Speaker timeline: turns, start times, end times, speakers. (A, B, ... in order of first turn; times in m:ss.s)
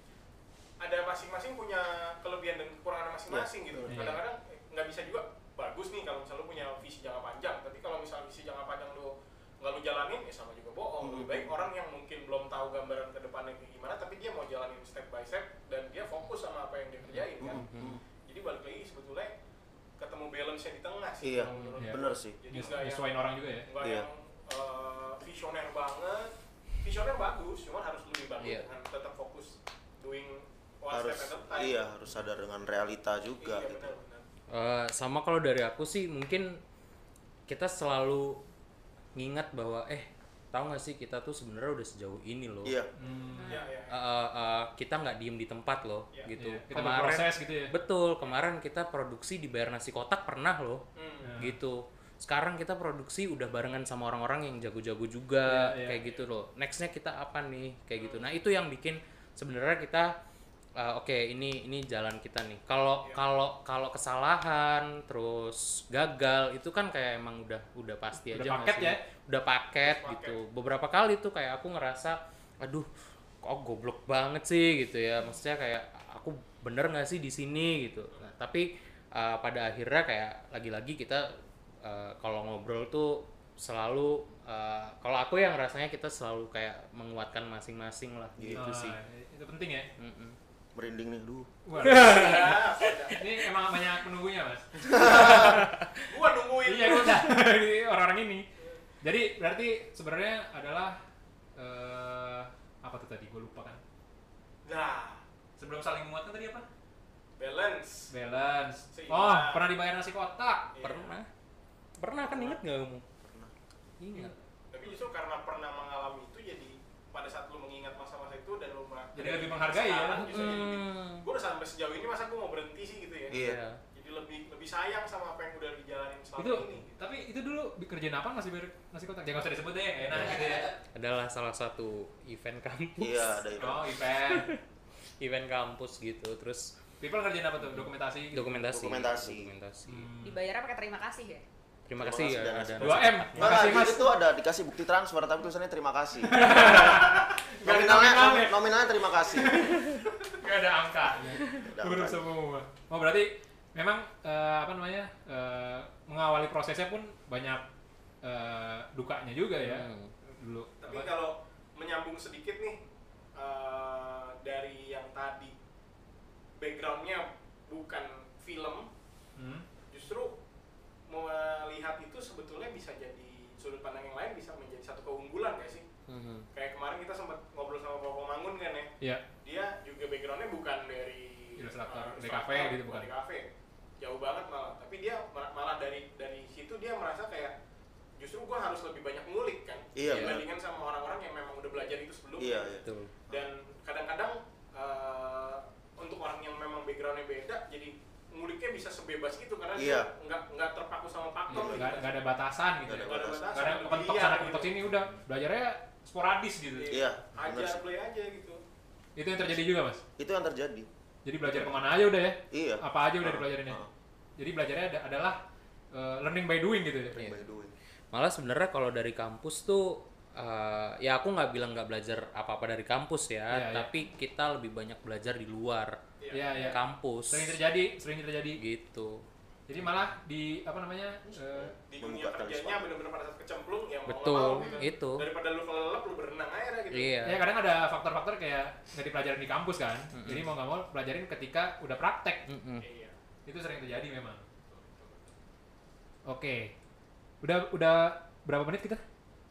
0:00.8-0:17.7 A
0:03.3-0:04.0 B
0:03.9-0:04.2 C
0:11.0-0:11.5 B
0:17.1-0:18.0 D
0:17.4-0:18.0 B
0:18.2-0:19.3 A
0:20.0-0:23.1 A
0:21.2-0:22.4 B
0:21.5-0:21.8 D
0:21.8-0:23.7 C
0:23.6-0:26.3 A
0:23.8-0:24.1 B
0:26.8-0:31.8 A
0:28.4-0:28.7 D
0:30.9-0:34.0 B
0:33.4-0:34.2 A
0:34.5-0:36.6 D
0:37.5-0:38.4 D
0:39.1-0:42.8 D
0:42.6-0:42.9 B
0:43.0-0:43.6 C
0:43.3-0:44.0 A
0:43.4-0:43.6 E
0:43.9-0:50.8 D
0:46.3-0:47.7 C
0:50.9-0:51.4 A
0:51.2-0:51.6 C
0:51.4-1:00.1 D
0:55.4-0:56.0 C
0:58.0-0:58.3 A
1:00.8-1:12.9 D
1:08.2-1:09.0 C
1:09.8-1:10.4 A
1:13.4-1:29.0 D
1:28.4-1:28.6 B
1:28.6-1:29.9 C
1:30.0-1:30.4 D
1:30.7-1:31.5 B
1:31.6-1:32.4 C
1:31.8-1:33.1 D
1:31.8-1:33.2 A
1:33.1-1:35.6 C
1:34.9-1:35.4 B
1:35.4-1:35.9 D
1:36.1-1:37.3 A
1:36.6-1:38.4 C
1:39.0-1:41.0 C
1:41.6-1:43.8 C
1:44.6-1:45.2 A
1:45.6-1:46.7 C
1:47.4-1:48.1 A
1:48.1-1:50.7 C
1:48.9-1:49.7 A
1:50.7-1:51.1 A
1:50.8-1:51.3 D
1:52.0-1:53.0 D
1:53.2-1:53.5 B
1:54.0-1:54.4 D
1:54.7-2:03.4 A
1:59.1-2:00.7 C
2:00.2-2:01.2 D
2:03.3-2:03.6 B
2:03.3-2:03.8 D
2:03.9-2:07.0 A
2:06.4-2:10.8 C
2:10.1-2:13.4 D
2:13.0-2:14.0 B
2:13.6-2:14.5 C
2:14.3-2:14.6 D
2:15.2-2:16.7 D
2:17.0-2:18.5 C
2:17.6-2:20.1 D
2:18.6-2:19.5 B
2:19.9-2:20.4 C
2:20.2-2:21.4 E
2:21.9-2:23.9 D
2:22.0-2:29.6 B
2:22.8-2:24.1 C
2:26.3-2:28.6 C
2:29.3-2:37.6 C
2:31.3-2:32.2 B
2:38.2-2:41.1 C
2:39.6-2:40.1 D
2:40.8-2:42.8 A
2:43.3-2:45.5 A
2:46.6-2:48.9 A
2:49.4-2:49.6 C
2:49.8-2:50.4 A
2:51.1-2:55.8 A
2:56.1-2:56.4 D
2:56.5-3:03.5 A
3:01.6-3:03.1 C
3:04.0-3:07.5 A
3:08.2-3:22.2 A
3:10.0-3:10.5 B
3:10.1-3:10.4 D
3:12.4-3:13.4 B
3:12.8-3:13.1 D
3:19.8-3:20.1 B
3:21.5-3:27.0 C
3:21.5-3:21.8 B
3:22.9-3:23.6 B
3:23.0-3:24.8 A
3:26.8-3:28.6 A
3:26.9-3:27.8 B
3:29.2-3:30.0 C
3:30.2-3:30.9 B
3:31.2-3:33.8 C
3:32.5-3:33.9 B
3:34.4-3:37.2 C
3:37.1-3:37.7 B
3:38.1-3:46.0 D
3:43.5-3:43.9 C
3:46.2-3:46.6 A
3:46.3-3:48.6 C
3:46.6-3:47.6 D
3:48.6-3:49.2 D
3:49.7-3:51.7 C
3:51.2-3:52.9 B
3:51.9-3:57.2 A
3:54.0-3:55.3 D
3:54.4-3:54.8 E
3:56.9-3:57.4 D
3:57.2-4:02.5 C
4:00.1-4:00.5 D
4:02.5-4:02.8 D
4:02.8-4:03.2 A
4:03.4-4:04.4 C
4:04.7-4:05.3 A
4:06.3-4:06.7 C
4:07.4-4:09.0 C